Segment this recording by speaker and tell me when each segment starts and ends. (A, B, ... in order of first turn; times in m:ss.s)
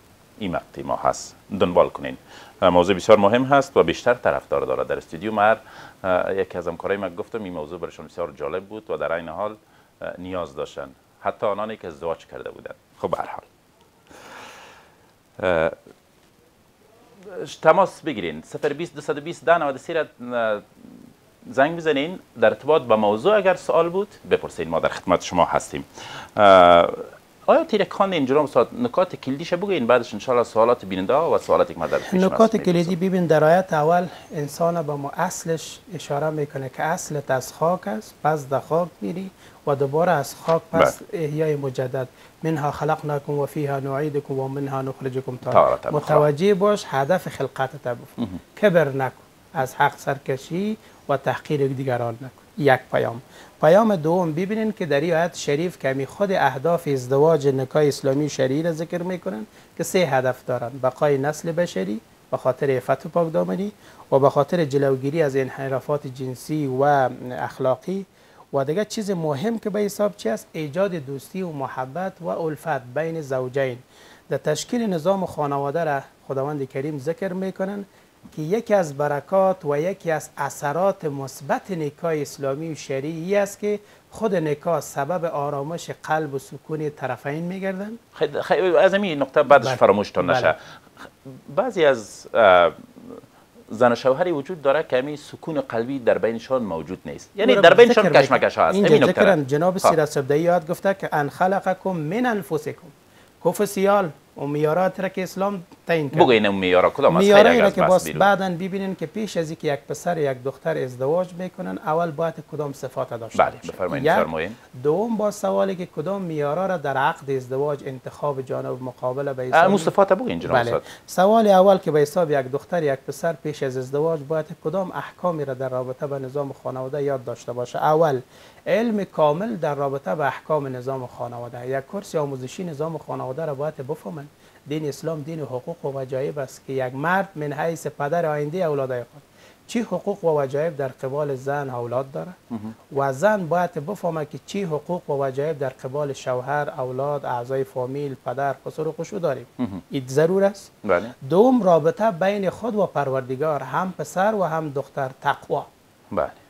0:00.4-0:13.4 A
0:14.2-0:14.5 A
0:15.4-0:15.8 A
0:17.2-0:32.9 A
0:32.1-1:28.0 B
0:45.4-0:46.3 A
1:28.1-1:30.6 A
1:29.5-1:30.5 B
1:31.2-1:39.9 A
1:37.4-1:46.4 B
1:46.1-1:48.3 A
1:47.1-2:22.4 B
1:53.3-1:54.6 A
1:59.5-2:00.8 A
2:22.5-2:22.8 A
2:22.9-2:30.7 B
2:30.8-2:31.1 A
2:31.2-2:35.7 B
2:36.1-2:36.4 A